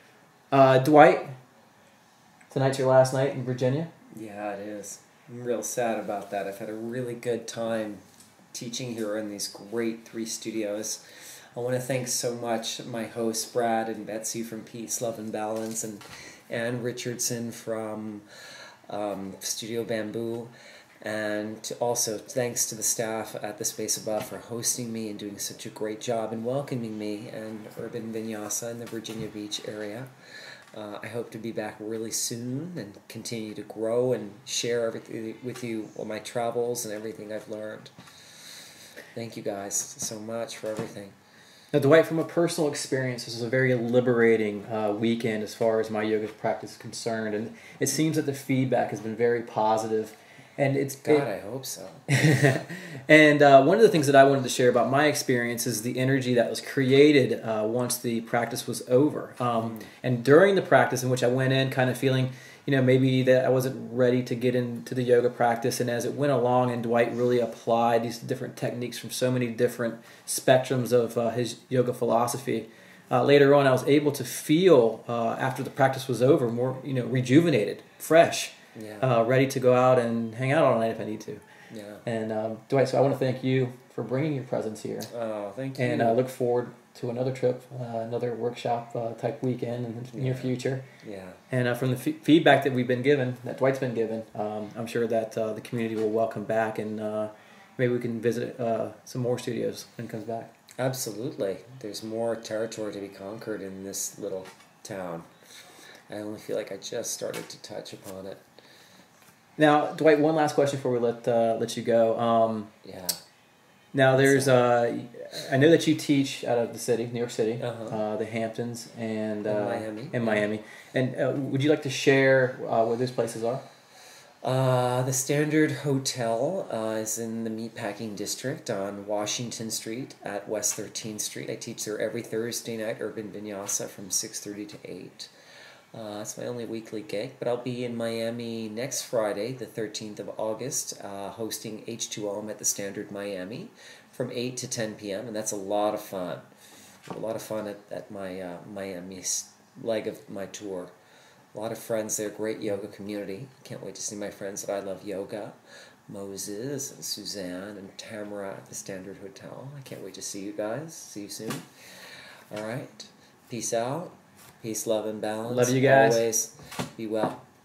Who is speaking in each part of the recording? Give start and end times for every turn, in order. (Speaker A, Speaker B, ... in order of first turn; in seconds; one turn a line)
Speaker A: 0.5-1.3
Speaker A: 2.5-3.9
Speaker B: 4.1-8.0
Speaker B: 8.5-18.2
Speaker B: 18.9-30.1
Speaker B: 30.7-37.9
Speaker B: 39.1-41.1
Speaker A: 41.7-51.3
Speaker B: 51.0-52.2
Speaker A: 52.1-81.4
Speaker B: 59.6-59.9
Speaker B: 78.7-79.1
Speaker B: 81.7-82.0
Speaker A: 82.0-85.1
Speaker B: 85.1-86.2
Speaker A: 85.8-90.8
Speaker B: 90.1-91.4
Speaker A: 91.5-100.5
Speaker B: 100.8-105.3
Speaker B: 106.1-108.4
Speaker A: 109.6-112.7
Speaker B: 112.8-113.2
Speaker A: 113.9-123.6
Speaker B: 114.1-114.6
Speaker B: 117.6-118.0
Speaker B: 119.4-120.5
Speaker B: 124.4-135.3
Speaker B: 135.9-146.5
Speaker B: 147.1-150.9
Speaker B: 151.5-167.4
Speaker A: 165.5-166.3